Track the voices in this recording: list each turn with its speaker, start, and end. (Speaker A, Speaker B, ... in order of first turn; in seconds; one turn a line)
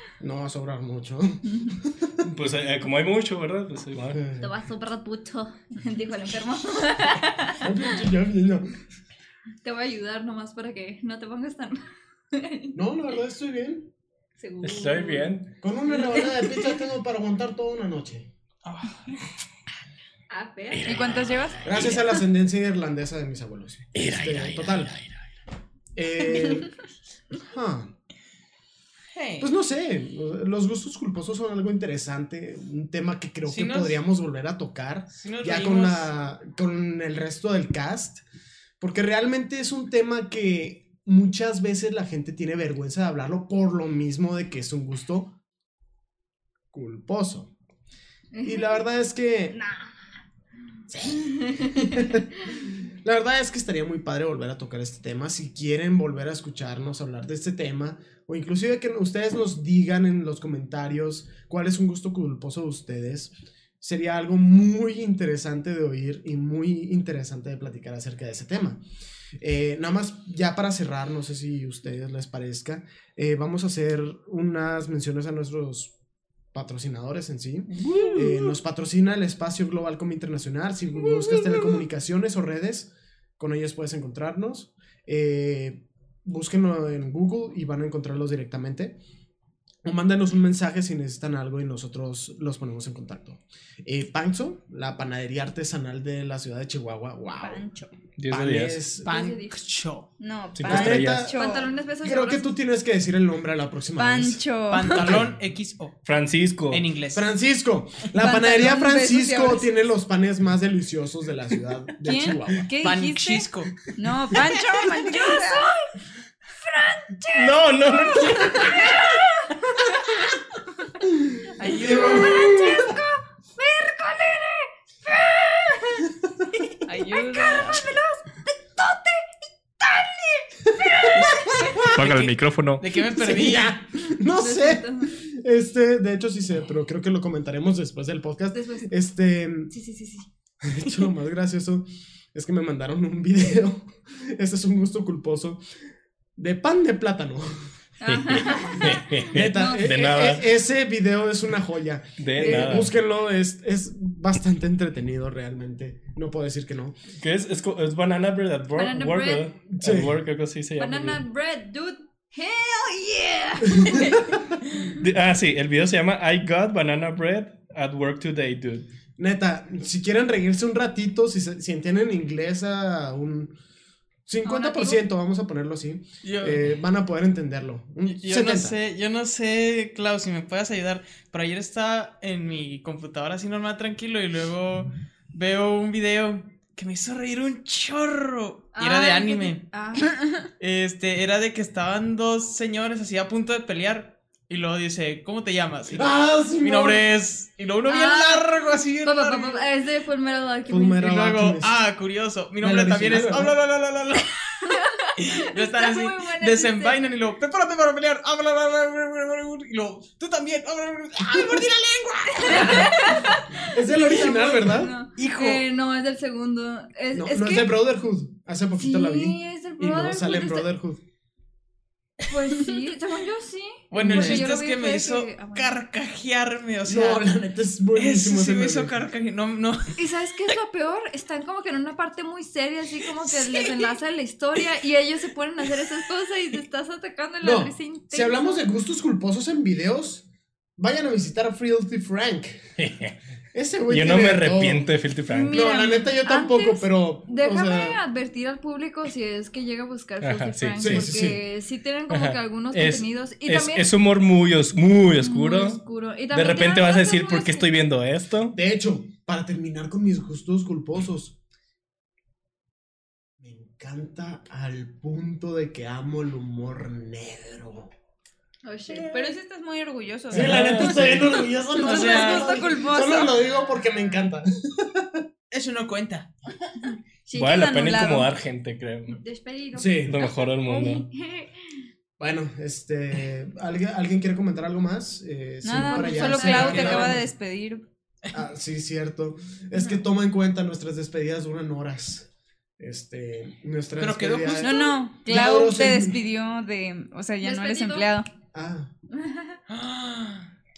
Speaker A: 0.2-2.2
Speaker B: 2.2-4.2
Speaker A: 4.1-4.5
Speaker C: 4.4-7.6
Speaker A: 7.6-8.7
Speaker C: 9.6-12.7
Speaker A: 12.7-13.9
Speaker C: 14.4-15.3
Speaker B: 14.6-15.5
Speaker A: 15.6-18.3
Speaker C: 16.0-16.5
Speaker D: 18.6-19.2
Speaker C: 20.3-21.1
Speaker B: 20.7-22.0
Speaker E: 20.9-21.7
Speaker A: 21.6-25.0
Speaker B: 23.9-25.1
Speaker A: 26.0-26.7
Speaker A: 27.4-27.9
Speaker D: 29.1-29.5
Speaker A: 29.4-38.2
Speaker D: 33.5-34.0
Speaker D: 35.1-36.1
Speaker A: 38.8-45.4
Speaker A: 46.7-47.5
Speaker C: 48.3-48.8
Speaker A: 48.4-49.6
Speaker A: 50.9-68.8
Speaker C: 51.2-52.2
Speaker A: 69.4-75.9
Speaker A: 76.5-89.0
Speaker D: 77.7-78.3
Speaker D: 81.1-81.7
Speaker A: 89.8-97.7
Speaker E: 97.4-97.9
Speaker B: 98.2-98.8
Speaker A: 98.3-99.2
Speaker C: 99.0-99.6
Speaker D: 99.0-100.1
Speaker E: 100.2-101.7
Speaker B: 100.6-101.3
Speaker A: 100.6-101.4
Speaker C: 101.3-102.5
Speaker A: 102.0-104.4
Speaker E: 104.0-105.1
Speaker D: 104.7-106.0
Speaker A: 104.9-105.3
Speaker B: 106.1-106.8
Speaker D: 106.7-107.3
Speaker A: 107.1-112.7
Speaker E: 108.1-109.7
Speaker E: 112.0-115.8
Speaker D: 112.8-113.7
Speaker C: 115.0-115.9
Speaker C: 116.6-120.3
Speaker B: 117.3-119.0
Speaker D: 121.6-122.5
Speaker C: 121.6-126.2
Speaker A: 121.7-123.0
Speaker E: 121.7-122.5
Speaker E: 126.9-127.9
Speaker C: 127.0-129.3
Speaker D: 127.0-127.7
Speaker C: 129.8-131.7
Speaker A: 130.8-131.9
Speaker D: 131.1-133.8
Speaker B: 131.9-132.8
Speaker A: 133.1-139.7
Speaker C: 134.4-135.2
Speaker C: 138.5-138.9
Speaker C: 139.7-140.3
Speaker A: 140.6-145.6
Speaker A: 146.4-147.7
Speaker C: 148.0-149.8
Speaker B: 148.1-150.5
Speaker A: 149.3-156.9
Speaker B: 152.2-152.9
Speaker C: 152.4-152.8
Speaker B: 157.2-161.2
Speaker C: 158.8-159.5
Speaker A: 159.7-160.2
Speaker C: 160.8-164.3
Speaker A: 163.8-164.3
Speaker B: 165.0-168.9
Speaker A: 169.2-173.5
Speaker A: 174.3-178.8
Speaker C: 174.4-175.0
Speaker D: 176.2-176.7
Speaker D: 178.1-189.7
Speaker C: 188.8-190.1
Speaker D: 190.6-199.7
Speaker A: 196.0-197.0
Speaker C: 197.9-198.5
Speaker C: 199.0-201.0
Speaker A: 200.7-201.8
Speaker D: 201.0-213.3
Speaker A: 202.6-203.6
Speaker C: 204.7-207.0
Speaker C: 212.4-217.7
Speaker A: 212.5-212.9
Speaker A: 213.7-214.9
Speaker D: 215.2-215.6
Speaker A: 217.1-221.0
Speaker C: 218.8-220.7
Speaker C: 222.3-225.7
Speaker D: 223.9-227.3
Speaker A: 224.0-224.4
Speaker A: 226.9-229.0
Speaker D: 227.9-230.6
Speaker C: 230.0-238.6
Speaker D: 233.2-233.9
Speaker A: 237.4-240.2
Speaker A: 240.8-242.7
Speaker B: 242.8-243.2
Speaker A: 243.5-244.9
Speaker B: 243.9-245.8
Speaker C: 245.3-253.9
Speaker A: 245.5-248.0
Speaker B: 250.2-251.1
Speaker A: 250.8-251.4
Speaker B: 252.1-255.8
Speaker C: 255.2-257.7
Speaker B: 256.3-258.6
Speaker A: 258.5-261.4
Speaker A: 263.4-267.9
Speaker C: 268.6-269.4
Speaker E: 269.0-271.0
Speaker B: 270.3-271.4
Speaker A: 270.3-275.2
Speaker E: 271.7-273.3
Speaker D: 271.8-272.6
Speaker C: 272.1-272.4
Speaker D: 275.5-276.3
Speaker E: 277.3-278.3
Speaker B: 277.3-279.2
Speaker C: 279.1-281.5
Speaker A: 279.8-280.2
Speaker B: 280.0-281.1
Speaker A: 282.2-287.3
Speaker E: 285.6-287.8
Speaker C: 285.7-287.2
Speaker A: 288.3-292.3
Speaker A: 292.8-296.2
Speaker D: 294.0-294.8
Speaker E: 294.6-298.3
Speaker C: 297.4-298.1
Speaker A: 298.5-298.9
Speaker C: 299.2-299.6
Speaker D: 299.7-300.5